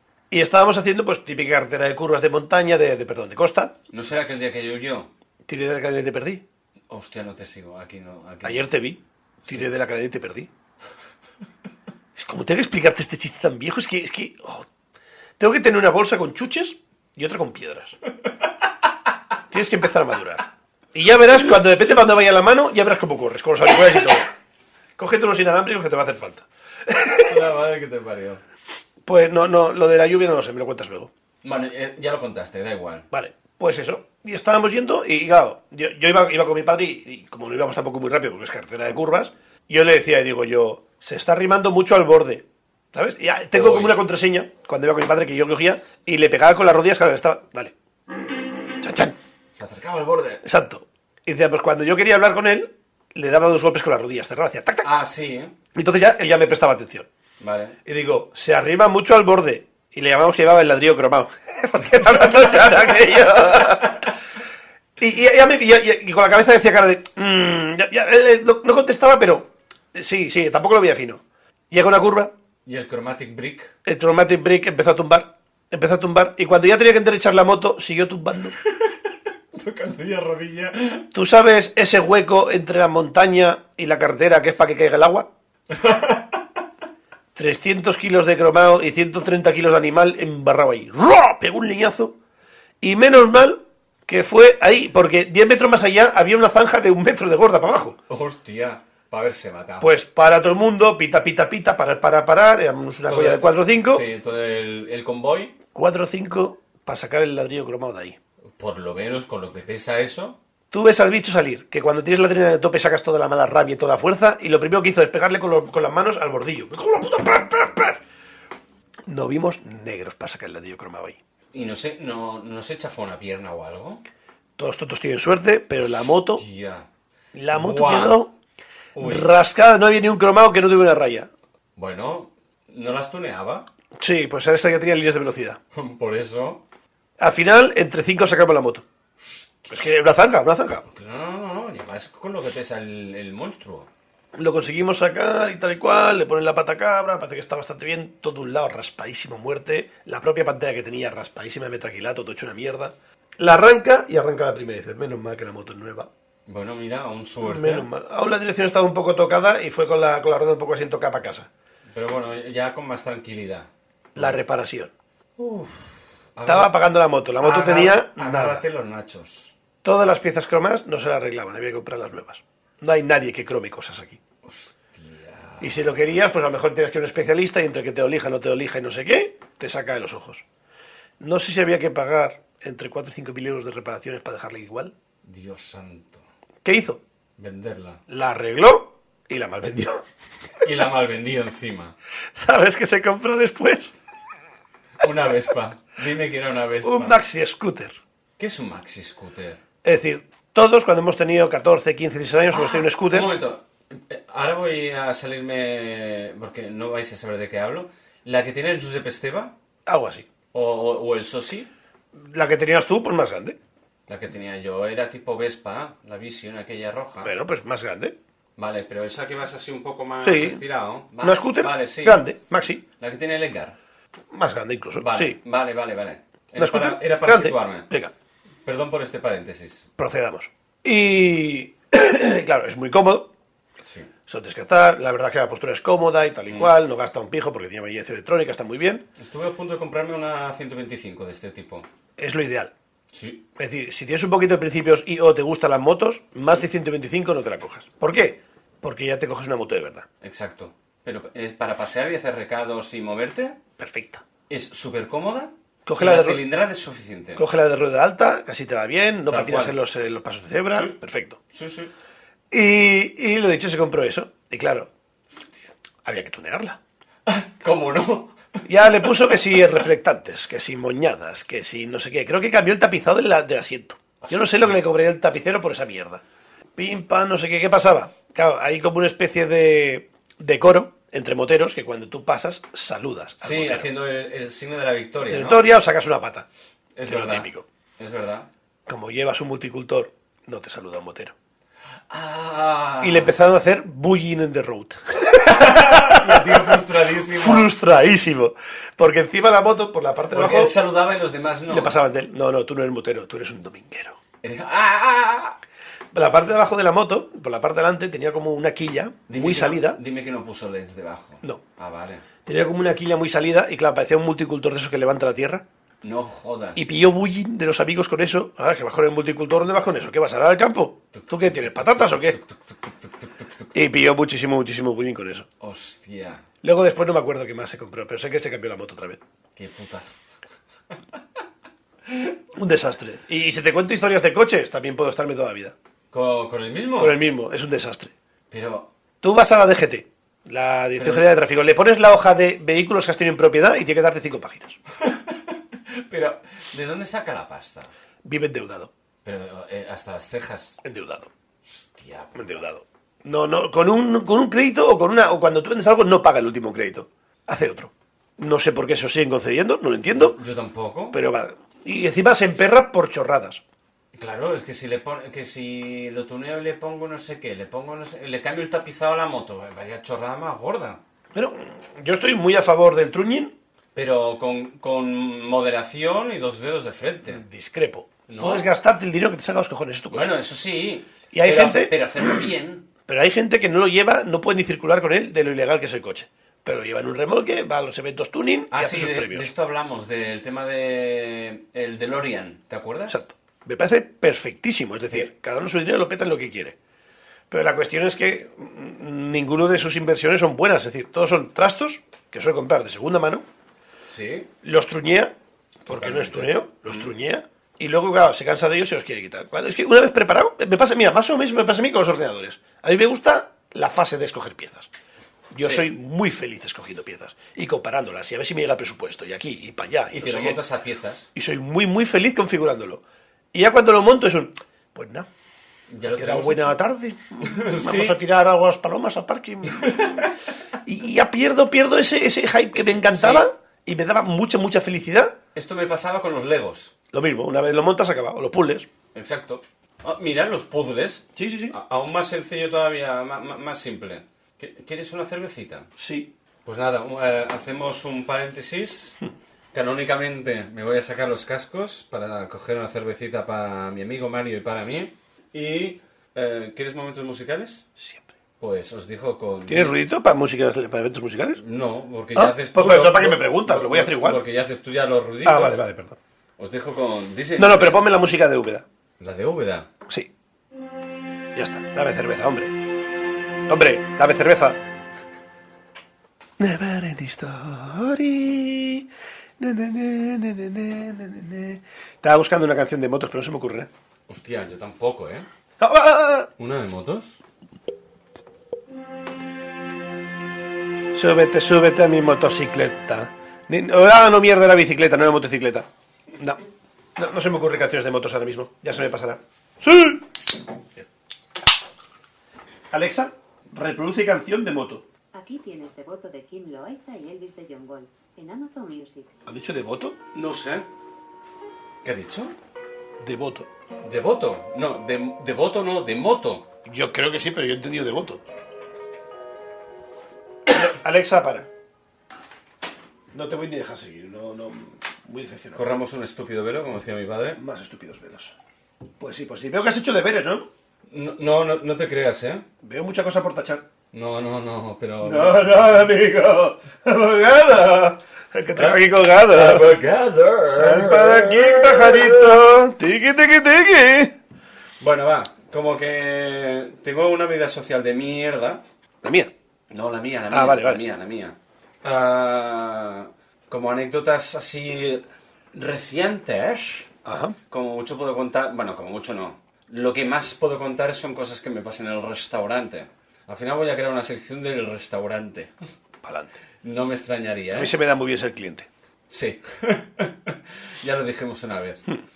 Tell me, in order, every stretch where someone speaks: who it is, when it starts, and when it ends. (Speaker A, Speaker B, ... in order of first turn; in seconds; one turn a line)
Speaker A: 0.3-3.7
Speaker B: 3.9-5.1
Speaker A: 5.5-6.4
Speaker B: 6.9-8.7
Speaker A: 8.4-10.5
Speaker B: 9.4-9.7
Speaker A: 12.2-14.7
Speaker A: 15.4-17.9
Speaker A: 19.5-24.3
Speaker A: 25.0-27.4
Speaker B: 27.2-28.4
Speaker A: 29.0-31.1
Speaker B: 31.4-33.1
Speaker A: 33.1-47.7
Speaker B: 43.5-44.0
Speaker A: 48.8-49.1
Speaker B: 49.6-50.4
Speaker A: 50.4-54.9
Speaker B: 54.8-55.5
Speaker A: 55.7-57.1
Speaker B: 57.4-57.8
Speaker A: 57.8-64.1
Speaker B: 62.3-64.0
Speaker A: 65.0-72.3
Speaker B: 72.7-73.7
Speaker A: 73.8-78.5
Speaker B: 79.5-81.1
Speaker A: 81.1-85.3
Speaker B: 85.7-86.4
Speaker A: 87.3-92.2
Speaker A: 92.8-98.0
Speaker B: 98.1-99.9
Speaker A: 99.8-104.0
Speaker B: 103.1-105.5
Speaker A: 105.7-108.2
Speaker B: 108.6-110.4
Speaker A: 110.7-118.0
Speaker A: 119.1-121.2
Speaker B: 121.5-124.0
Speaker A: 124.6-126.4
Speaker B: 126.2-126.9
Speaker A: 127.3-128.3
Speaker B: 127.5-128.2
Speaker B: 128.9-129.3
Speaker A: 129.0-131.3
Speaker B: 131.8-133.7
Speaker A: 134.0-135.6
Speaker B: 135.7-136.6
Speaker A: 137.2-138.8
Speaker A: 139.7-140.9
Speaker B: 140.9-143.9
Speaker A: 144.3-156.1
Speaker B: 156.4-157.9
Speaker A: 157.4-161.5
Speaker B: 161.9-164.4
Speaker A: 164.2-164.9
Speaker B: 165.4-166.7
Speaker A: 166.4-168.6
Speaker B: 167.4-169.5
Speaker A: 169.8-174.2
Speaker B: 174.4-175.8
Speaker A: 175.6-180.4
Speaker A: 181.2-184.9
Speaker B: 185.2-186.2
Speaker A: 186.6-187.0
Speaker B: 187.4-188.0
Speaker A: 188.1-190.0
Speaker B: 190.6-191.9
Speaker A: 192.3-193.9
Speaker B: 195.0-197.2
Speaker A: 196.8-198.0
Speaker B: 198.4-199.6
Speaker A: 199.8-203.3
Speaker B: 202.5-209.5
Speaker A: 209.8-210.2
Speaker B: 210.5-211.7
Speaker A: 212.1-213.6
Speaker B: 214.1-217.3
Speaker A: 217.2-218.2
Speaker B: 218.6-222.2
Speaker A: 220.2-220.6
Speaker A: 221.2-222.8
Speaker B: 223.0-223.8
Speaker A: 224.3-225.4
Speaker B: 225.0-227.9
Speaker A: 226.5-228.1
Speaker B: 228.6-229.9
Speaker A: 230.0-233.3
Speaker B: 233.8-234.1
Speaker A: 234.3-239.0
Speaker B: 236.5-236.7
Speaker B: 239.2-241.8
Speaker A: 242.2-242.7
Speaker B: 243.1-243.4
Speaker A: 243.6-250.1
Speaker B: 250.2-253.6
Speaker A: 253.8-254.2
Speaker B: 254.5-257.4
Speaker A: 255.8-256.4
Speaker A: 257.4-261.4
Speaker B: 259.2-259.8
Speaker B: 260.7-261.0
Speaker B: 261.5-261.9
Speaker A: 262.5-264.9
Speaker A: 266.0-266.8
Speaker B: 267.2-269.4
Speaker A: 268.7-276.2
Speaker B: 274.2-274.7
Speaker A: 276.8-283.9
Speaker B: 283.4-285.6
Speaker A: 285.2-286.5
Speaker B: 286.9-288.5
Speaker A: 287.0-287.6
Speaker A: 288.9-291.3
Speaker B: 292.1-293.3
Speaker A: 293.0-300.7
Speaker B: 295.5-297.7
Speaker B: 300.3-301.9
Speaker A: 301.7-304.2
Speaker B: 304.4-305.6
Speaker A: 306.1-310.0
Speaker B: 309.3-312.2
Speaker A: 312.4-315.6
Speaker B: 316.0-316.9
Speaker A: 316.8-322.4
Speaker B: 321.1-323.9
Speaker A: 323.7-325.5
Speaker B: 325.6-326.4
Speaker A: 326.6-329.2
Speaker B: 329.6-330.1
Speaker A: 332.5-335.7
Speaker B: 336.1-337.2
Speaker A: 337.0-338.1
Speaker B: 338.5-338.9
Speaker A: 339.2-344.8
Speaker B: 341.0-341.3
Speaker B: 345.0-347.9
Speaker A: 348.2-348.9
Speaker B: 349.2-350.8
Speaker A: 350.8-351.3
Speaker B: 351.6-352.6
Speaker A: 352.3-360.4
Speaker B: 360.1-361.2
Speaker A: 361.1-363.6
Speaker B: 364.1-371.0
Speaker A: 371.3-373.5
Speaker B: 373.9-377.4
Speaker A: 377.2-380.3
Speaker B: 378.3-378.7
Speaker B: 380.1-382.9
Speaker A: 381.3-381.9
Speaker A: 383.1-389.5
Speaker B: 388.7-393.2
Speaker A: 393.1-396.8
Speaker A: 397.5-403.4
Speaker B: 404.1-404.5
Speaker A: 404.6-414.9
Speaker B: 405.9-407.1
Speaker A: 415.5-420.6
Speaker B: 415.6-415.9
Speaker B: 420.1-421.3
Speaker A: 421.3-425.3
Speaker B: 425.9-426.8
Speaker A: 426.1-430.2
Speaker B: 427.4-428.2
Speaker B: 429.7-430.3
Speaker A: 430.8-435.4
Speaker B: 433.1-433.5
Speaker B: 435.5-436.9
Speaker A: 437.1-438.9
Speaker B: 439.1-445.9
Speaker A: 441.4-441.7
Speaker A: 446.0-446.3
Speaker B: 446.6-449.1
Speaker B: 449.7-457.9
Speaker A: 458.0-458.2
Speaker B: 458.6-459.9
Speaker A: 459.7-461.6
Speaker B: 461.6-465.8
Speaker A: 462.3-464.4
Speaker A: 465.4-466.2
Speaker B: 466.6-468.1
Speaker A: 467.6-468.8
Speaker B: 469.2-469.9
Speaker A: 471.5-472.7
Speaker A: 473.7-474.8
Speaker A: 476.6-479.1
Speaker A: 479.6-483.9
Speaker B: 484.3-485.5
Speaker A: 485.8-486.5
Speaker B: 486.6-487.4
Speaker A: 491.1-496.6
Speaker A: 497.1-500.3
Speaker A: 502.9-505.1
Speaker C: 505.3-509.3
Speaker A: 509.4-510.2
Speaker B: 510.3-510.9
Speaker B: 512.0-512.5
Speaker A: 513.2-513.7
Speaker B: 514.0-516.7
Speaker A: 516.9-518.4
Speaker A: 520.7-521.7
Speaker A: 523.3-525.8
Speaker B: 525.7-527.6
Speaker A: 527.5-528.5
Speaker A: 529.2-530.7
Speaker B: 531.1-532.6
Speaker A: 532.8-533.9
Speaker B: 534.1-535.7
Speaker A: 535.2-540.0
Speaker B: 538.7-542.6
Speaker A: 540.7-544.3
Speaker B: 545.0-548.8
Speaker A: 549.2-549.5
Speaker B: 549.9-557.1
Speaker A: 550.5-551.0
Speaker A: 557.2-557.6
Speaker B: 557.7-565.7
Speaker A: 566.2-566.6
Speaker B: 566.8-567.9
Speaker A: 567.7-568.9
Speaker B: 569.3-572.1